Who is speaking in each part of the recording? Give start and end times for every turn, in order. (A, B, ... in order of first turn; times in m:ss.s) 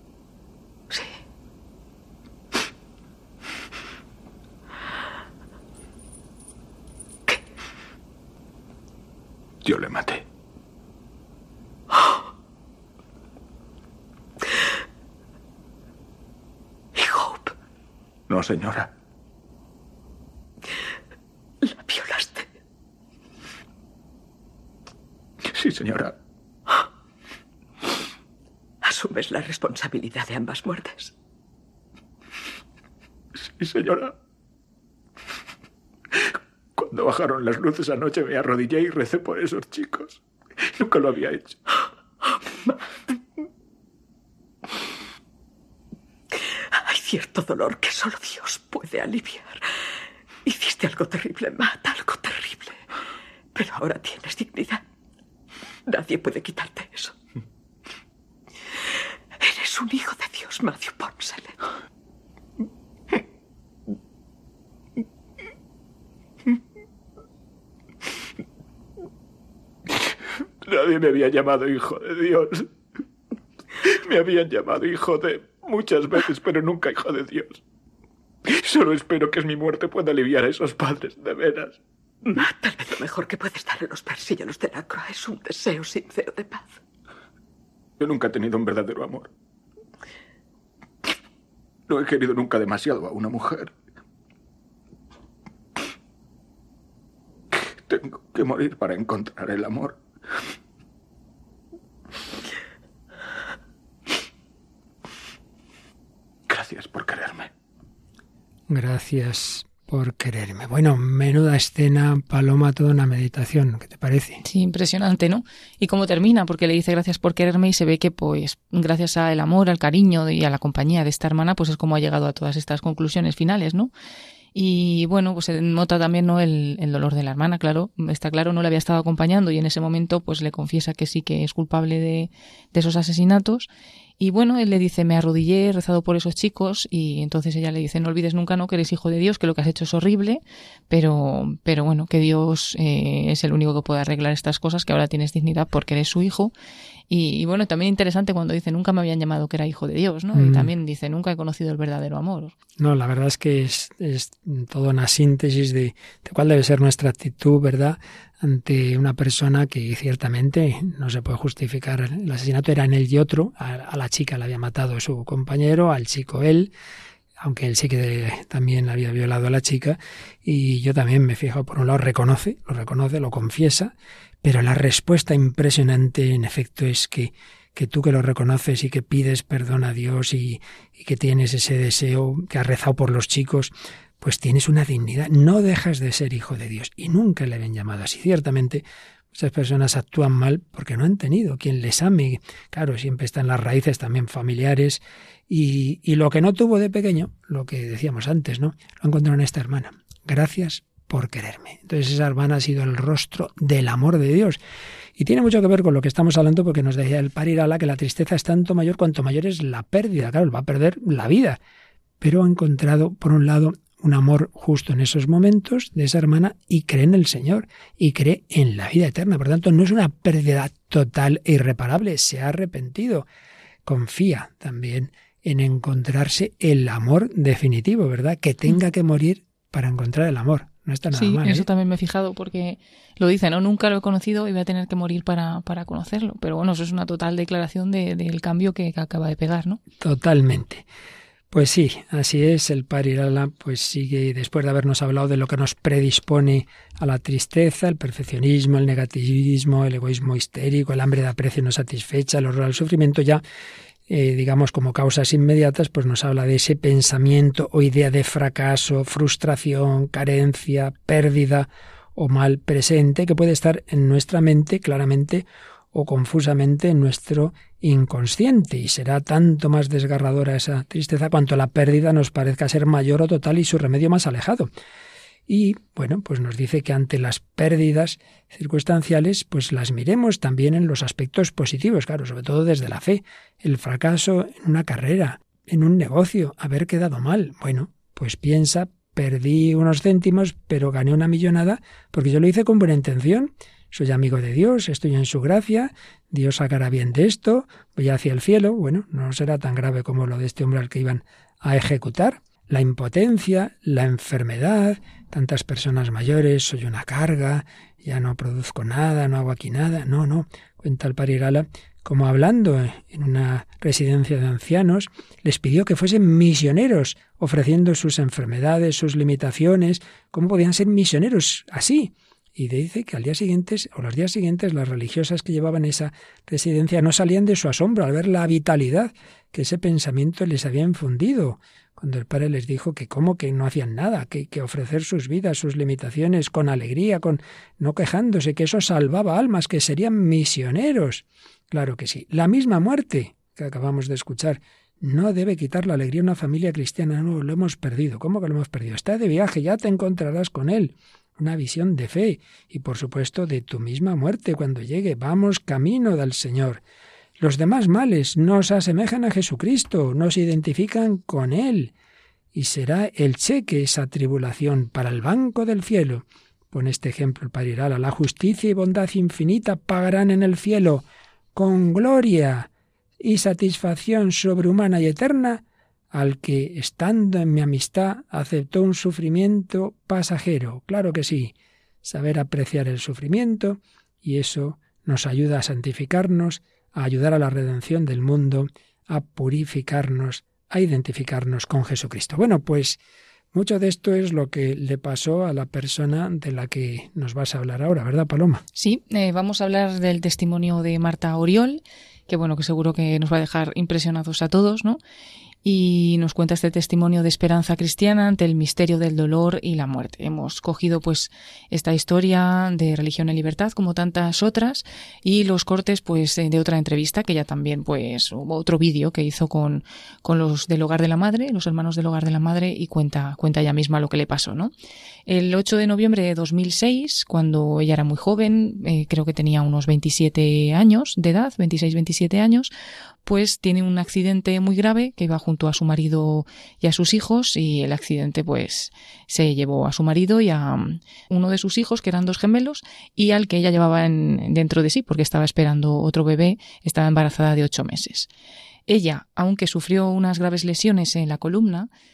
0:00.9-0:01.2 A
0:09.6-0:10.2 B
0:17.0-0:17.5 A
0:18.3-0:18.9 B
0:21.6-0:22.5 A
0:25.5-0:26.2 B
0:28.8-0:31.1 A
0:33.4-0:34.2 B
0:36.2-0:40.2 B
0:40.8-0:41.6 B
0:46.3-0:49.6 A
0:50.4-0:52.9 A
0:53.5-0:54.8 A
0:55.9-0:57.2 A
0:59.4-1:01.6 A
1:10.6-1:12.7 B
1:13.8-1:17.6 B
1:18.5-1:21.8 B
1:22.3-1:26.8 A
1:28.0-1:29.3 B
1:31.9-1:33.7 B
1:37.5-1:40.0 B
1:46.5-1:47.5 B
1:48.7-1:54.4 C
1:54.4-2:03.9 D
2:04.5-2:26.5 D
2:27.1-2:32.6 D
2:30.3-2:30.7 C
2:32.8-2:46.7 C
2:47.4-3:24.6 C
3:25.2-3:31.6 C
3:32.2-3:43.3 C
3:43.9-3:51.7 C
3:51.1-3:59.8 D
4:00.0-4:00.9 C
4:01.5-4:13.4 C
4:14.1-4:34.7 C
4:35.5-5:56.8 C
5:57.4-6:01.9 C
6:02.5-6:12.7 C
6:13.2-6:33.0 C
6:33.5-6:38.6 C
6:38.8-6:45.0 D
6:45.6-7:04.7 D
7:05.3-7:12.7 D
7:13.2-7:28.3 D
7:28.9-7:31.9 D